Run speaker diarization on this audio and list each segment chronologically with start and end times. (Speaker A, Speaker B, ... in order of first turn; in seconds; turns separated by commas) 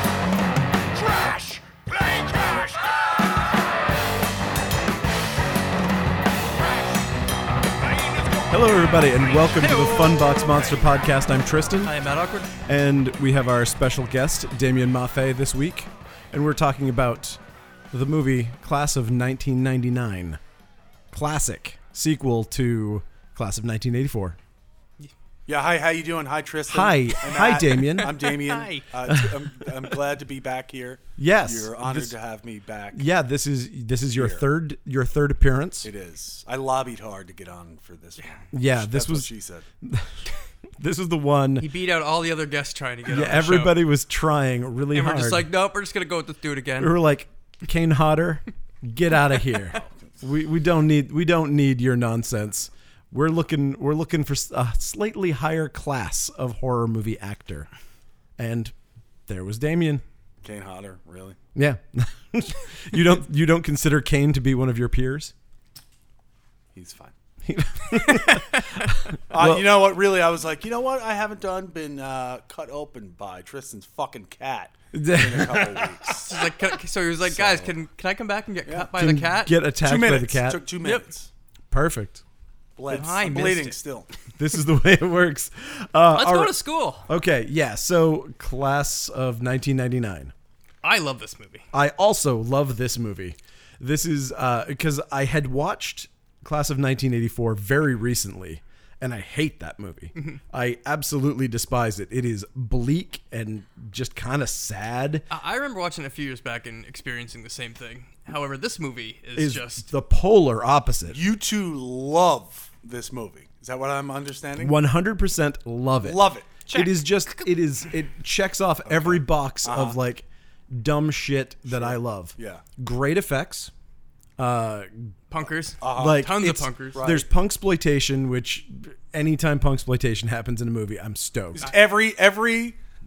Speaker A: 1.1-1.6, Speaker B: 8.5-11.9, Speaker C: 9.5-10.8, Speaker C: 11.8-12.5, Speaker B: 12.7-17.4, Speaker B: 17.9-20.4, Speaker B: 21.1-24.4, Speaker A: 25.5-33.0, Speaker B: 26.7-28.2, Speaker C: 28.0-28.9, Speaker B: 29.1-29.5, Speaker B: 31.2-32.1, Speaker B: 32.9-35.9, Speaker A: 34.1-34.4, Speaker A: 35.8-39.7, Speaker B: 38.5-39.3, Speaker B: 39.8-40.3, Speaker B: 40.8-41.7, Speaker C: 41.6-43.8, Speaker B: 43.1-45.5, Speaker C: 44.9-47.0, Speaker B: 46.8-57.7, Speaker B: 58.4-58.7, Speaker B: 59.3-60.0, Speaker A: 60.4-61.4, Speaker B: 61.5-65.3, Speaker A: 66.7-67.1, Speaker B: 67.5-69.8, Speaker C: 68.0-68.7, Speaker A: 69.3-76.3, Speaker B: 74.9-76.2, Speaker C: 76.1-79.6, Speaker A: 77.3-77.7, Speaker B: 78.9-80.6, Speaker A: 79.8-81.3, Speaker C: 80.8-81.1, Speaker B: 81.7-82.2, Speaker A: 82.8-84.1, Speaker C: 82.9-83.8, Speaker B: 84.4-86.5, Speaker C: 86.1-87.1, Speaker B: 87.1-90.3, Speaker C: 90.8-91.7, Speaker B: 91.7-105.3, Speaker C: 105.3-109.9, Speaker B: 109.4-111.2, Speaker A: 111.1-114.8, Speaker B: 114.6-123.7, Speaker A: 116.0-116.9, Speaker C: 116.8-117.5, Speaker A: 118.9-120.0, Speaker A: 121.7-122.7, Speaker B: 124.4-125.2, Speaker C: 125.3-127.0, Speaker A: 125.8-126.3, Speaker B: 125.9-131.7, Speaker A: 126.9-127.3, Speaker A: 131.6-132.8